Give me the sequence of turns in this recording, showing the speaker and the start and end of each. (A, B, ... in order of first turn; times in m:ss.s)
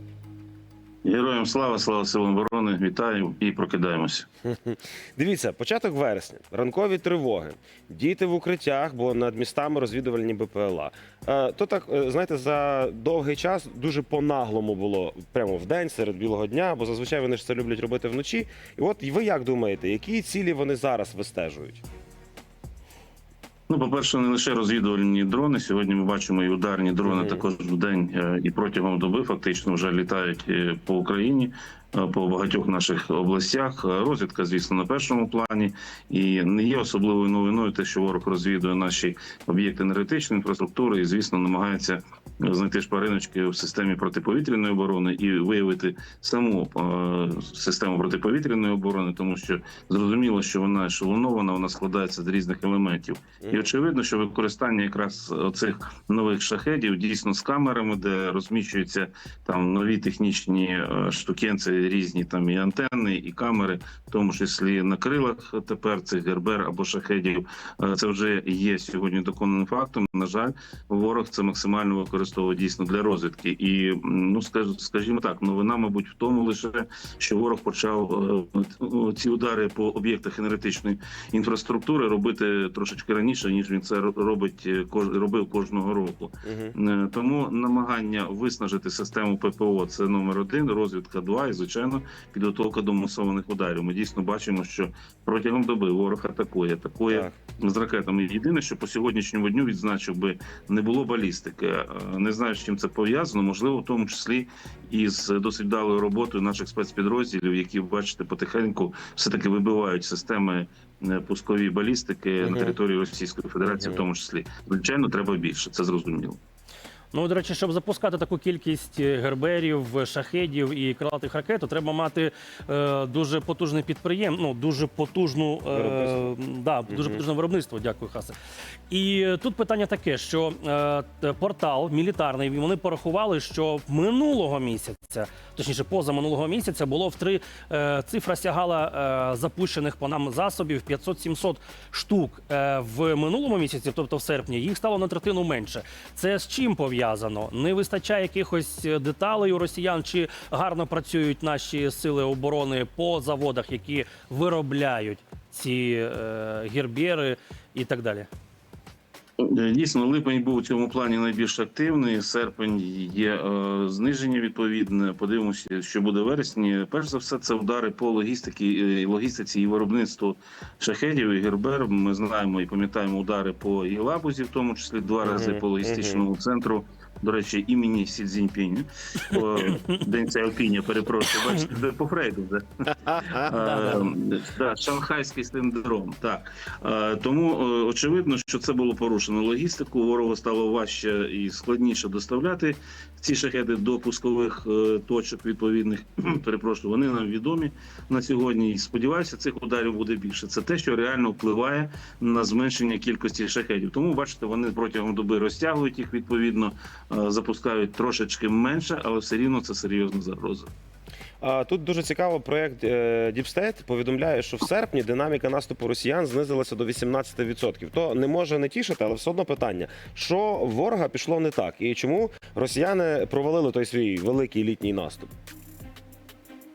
0:01.0-0:04.3 A
0:04.4-0:21.8 B
0:23.7-1:56.4 A
0:27.0-0:27.4 B
0:53.4-0:53.7 B
1:26.4-1:26.7 B
1:37.1-1:37.4 B
1:52.4-1:52.8 B
1:53.8-1:54.0 B
1:57.1-2:08.3 C
2:05.7-2:06.3 B
2:06.9-2:07.2 B
2:08.9-2:38.3 C
2:39.4-3:30.7 A
2:55.2-2:56.2 B
3:03.4-3:04.1 C
3:31.4-3:45.3 B